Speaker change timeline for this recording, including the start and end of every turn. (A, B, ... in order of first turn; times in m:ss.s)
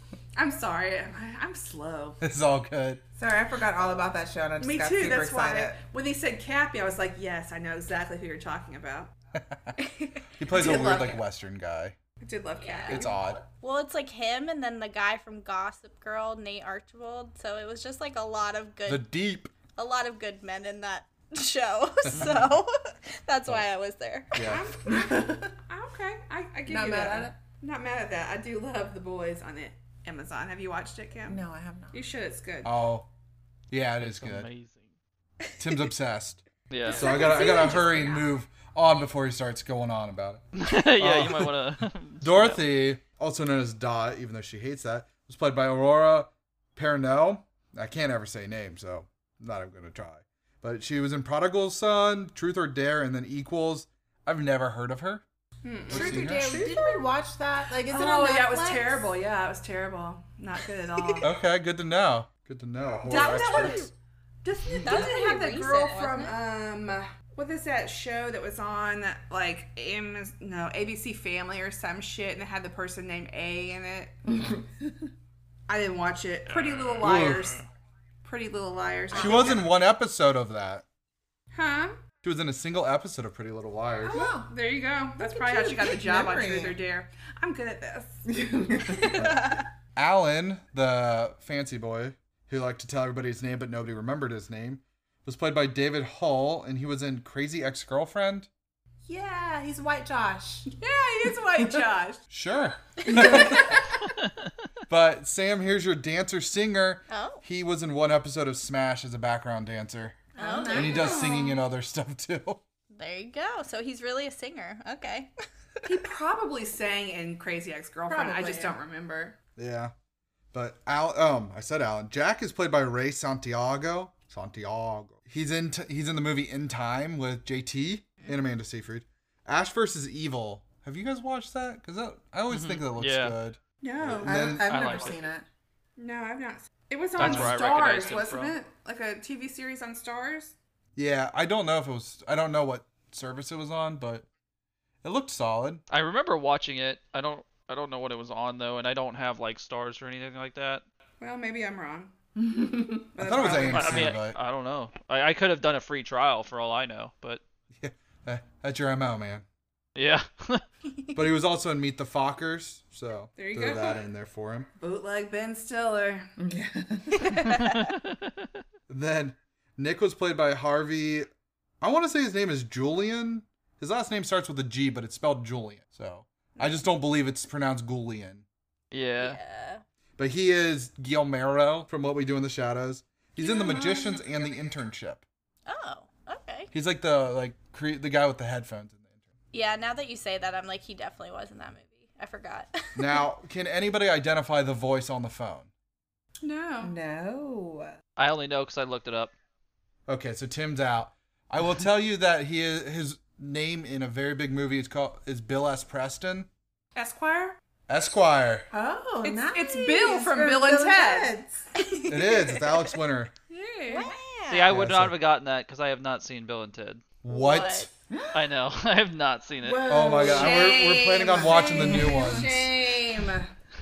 0:00.4-0:02.2 A
0:02.2-0:03.0 B
0:03.2-0:05.8 C
0:04.6-0:09.1 A
0:09.4-0:09.8 B
0:09.9-0:10.2 D
0:10.4-0:12.0 B
0:10.5-0:11.2 A
0:12.2-0:13.2 A
0:12.6-0:19.1 D
0:12.9-0:13.5 B
0:18.9-0:19.5 B
0:19.7-0:24.4 D
0:22.1-0:22.5 B
0:22.1-0:22.5 E
0:24.3-0:24.7 B
0:24.4-0:31.4 A
0:24.8-0:25.6 C
0:26.7-0:27.4 C
0:31.3-0:32.0 C
0:31.9-0:32.7 A
0:32.6-0:33.1 B
0:33.7-0:34.5 B
0:34.0-0:34.9 E
0:35.6-0:36.4 B
0:36.7-0:37.1 E
0:37.0-0:41.6 B
0:37.0-0:38.1 D
0:37.0-0:38.2 C
0:37.1-0:37.7 A
0:40.6-0:42.6 E
0:42.2-0:55.2 B
0:55.6-0:57.0 A
0:55.9-0:56.6 B
0:55.9-0:59.1 C
0:57.9-1:01.3 A
1:01.0-1:01.2 C
1:01.2-1:03.8 B
1:03.0-1:03.9 A
1:04.4-1:14.2 A
1:04.8-1:06.4 D
1:14.3-1:15.0 C
1:15.7-1:17.6 A
1:16.5-1:17.6 E
1:17.0-1:17.4 B
1:18.2-1:19.7 A
1:19.1-1:19.6 C
1:19.2-1:20.8 B
1:21.5-1:22.0 A
1:22.2-1:24.2 B
1:24.1-1:24.5 C
1:24.1-1:28.2 A
1:25.2-1:26.8 C
1:28.3-1:29.6 C
1:29.1-1:38.5 B
1:39.1-1:40.7 C
1:40.7-1:42.2 A
1:42.3-1:44.0 B
1:43.1-1:43.7 C
1:44.9-1:52.6 B
1:47.1-1:47.4 D
1:50.4-1:51.6 C
1:50.4-1:51.3 D
1:50.7-1:51.6 A
1:53.0-1:55.3 D
1:55.8-1:59.4 A
1:58.1-1:58.8 C
1:59.6-1:59.9 B
2:00.5-2:15.1 B
2:12.5-2:13.4 E
2:13.8-2:14.6 A
2:14.2-2:15.5 C
2:14.6-2:15.3 E
2:16.0-2:20.5 A
2:17.2-2:18.6 E
2:17.2-2:17.6 B
2:21.0-2:24.3 B
2:25.0-2:25.8 B
2:25.9-2:30.8 E
2:31.2-2:32.1 A
2:32.4-2:33.1 C
2:33.1-2:34.2 A
2:33.2-2:34.4 B
2:33.7-2:37.4 E
2:37.8-2:39.4 B
2:40.0-2:40.6 E
2:41.2-2:44.7 B
2:43.4-2:44.0 A
2:44.8-2:46.3 A
2:46.4-2:47.3 C
2:47.2-2:47.8 D
2:47.5-2:48.6 E
2:48.9-2:51.3 B
2:51.8-2:58.4 B
2:58.9-2:59.4 E
2:59.2-2:59.8 D
3:00.2-3:05.2 B
3:03.4-3:04.2 A
3:05.7-3:06.7 D
3:06.7-3:09.1 B
3:09.5-3:13.3 D
3:13.0-3:15.7 B
3:16.4-3:16.9 A
3:16.8-3:18.0 C
3:18.2-3:19.3 E
3:20.1-3:26.5 B
3:27.0-3:27.6 A
3:27.9-3:28.7 B
3:28.7-3:31.7 C
3:29.2-3:31.3 A
3:31.8-3:33.0 D
3:32.1-3:33.3 B
3:33.5-3:34.1 A
3:33.9-3:34.8 D
3:34.5-3:37.0 E
3:34.7-3:35.2 B
3:37.2-3:37.9 B
3:37.3-3:37.9 D
3:38.1-3:38.4 C
3:38.3-3:40.2 E
3:39.6-3:43.4 C
3:39.9-3:42.7 B
3:40.0-3:43.5 A